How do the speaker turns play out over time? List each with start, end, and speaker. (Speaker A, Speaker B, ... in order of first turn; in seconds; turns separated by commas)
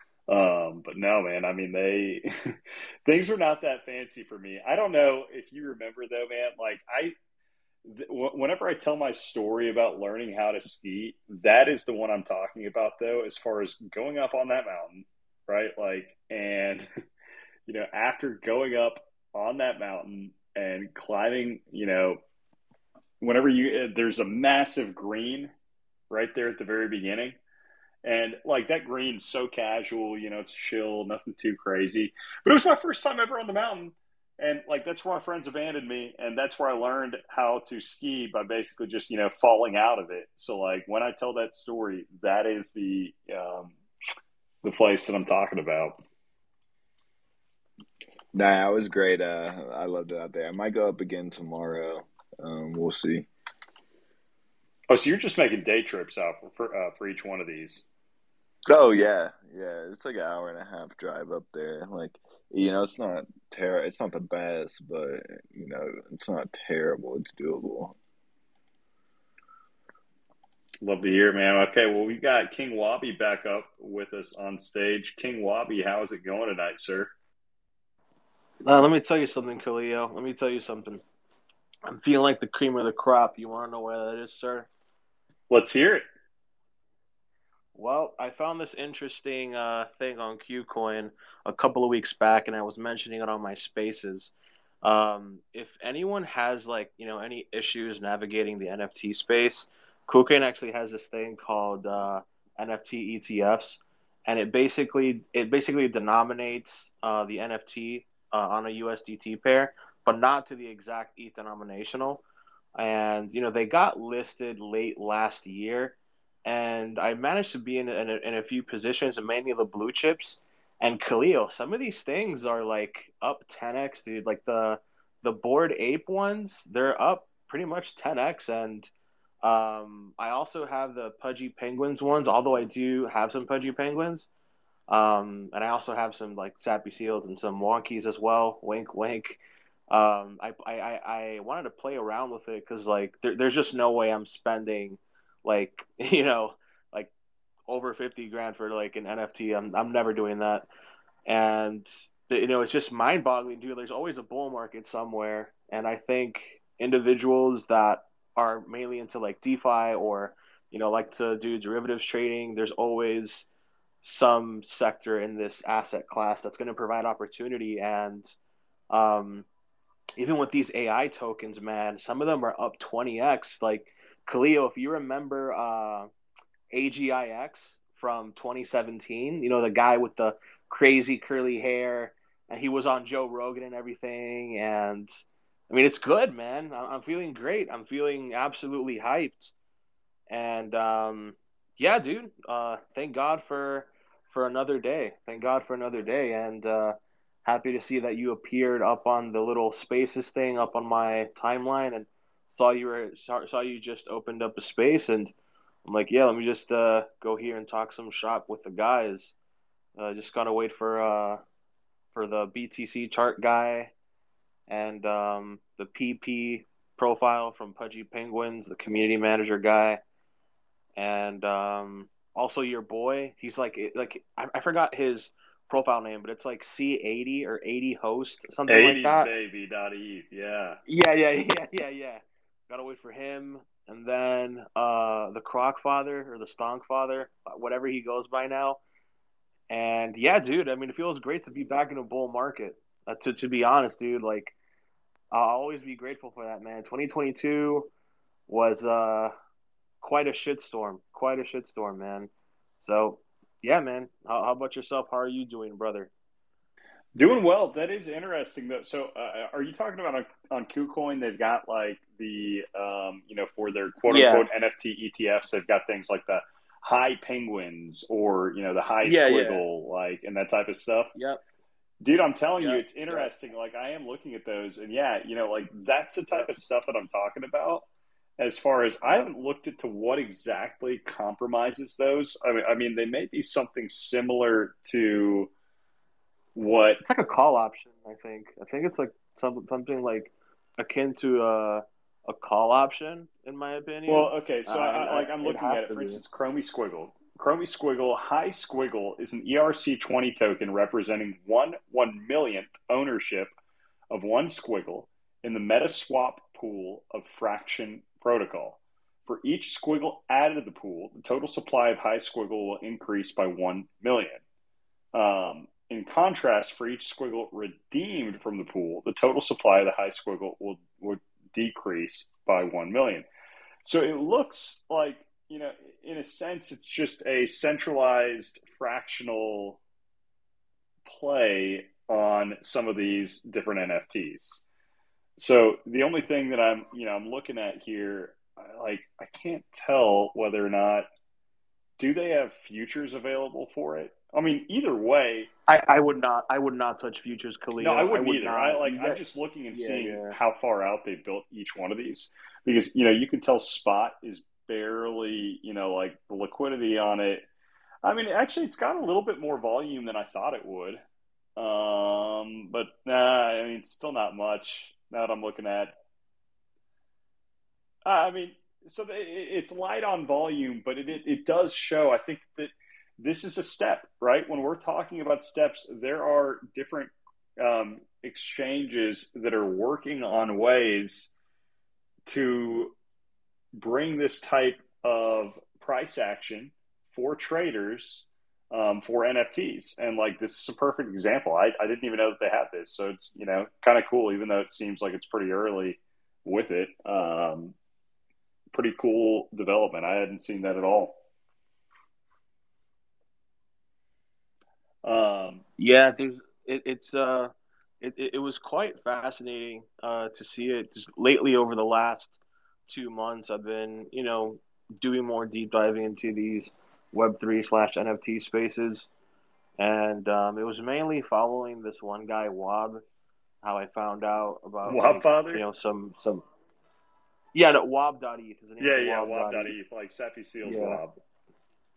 Speaker A: 0.3-7.1, Speaker A: 7.8-16.9, Speaker A: 17.7-22.2, Speaker A: 23.2-25.5, Speaker A: 26.1-27.4, Speaker A: 28.0-43.8, Speaker A: 44.6-46.0, Speaker B: 48.3-53.3, Speaker A: 54.9-57.8, Speaker B: 58.7-67.9, Speaker A: 70.8-77.1, Speaker C: 78.6-81.0, Speaker C: 81.8-84.7, Speaker A: 85.5-86.0, Speaker C: 87.7-94.3, Speaker C: 94.8-112.2, Speaker C: 112.8-128.9, Speaker C: 129.4-134.3, Speaker C: 134.9-147.1, Speaker C: 147.7-150.7, Speaker C: 151.3-163.5, Speaker C: 164.0-168.4, Speaker C: 168.9-169.5, Speaker C: 170.2-176.1, Speaker C: 176.7-189.5, Speaker C: 190.3-205.3, Speaker C: 205.8-209.3, Speaker C: 210.0-211.4, Speaker C: 212.1-213.9, Speaker C: 214.7-220.0, Speaker C: 221.0-229.3, Speaker A: 228.7-230.8, Speaker C: 230.8-238.8, Speaker C: 239.7-244.5, Speaker C: 245.3-247.9, Speaker C: 248.5-249.3, Speaker C: 250.0-252.3, Speaker C: 252.8-256.1, Speaker A: 257.1-271.1, Speaker C: 264.1-264.5, Speaker C: 269.0-269.6, Speaker C: 271.1-271.4, Speaker A: 272.0-277.9, Speaker C: 272.6-273.3, Speaker A: 278.4-285.5, Speaker A: 286.5-287.0, Speaker C: 287.1-296.2, Speaker A: 294.1-303.5, Speaker A: 304.1-314.4, Speaker A: 315.1-323.2, Speaker A: 323.8-329.8, Speaker A: 331.1-334.6, Speaker A: 335.4-341.1, Speaker A: 342.0-345.5, Speaker C: 345.7-349.2, Speaker A: 347.8-357.4, Speaker C: 349.7-350.4, Speaker A: 358.0-361.0, Speaker A: 361.6-365.9, Speaker A: 368.0-381.3, Speaker A: 382.2-382.9, Speaker A: 383.8-397.7, Speaker A: 398.7-401.2, Speaker A: 405.0-405.6, Speaker C: 405.8-412.4, Speaker C: 412.9-419.1, Speaker C: 419.8-423.0, Speaker C: 423.6-426.4, Speaker A: 424.9-425.6, Speaker C: 427.5-429.8, Speaker A: 428.8-431.2, Speaker C: 430.6-431.0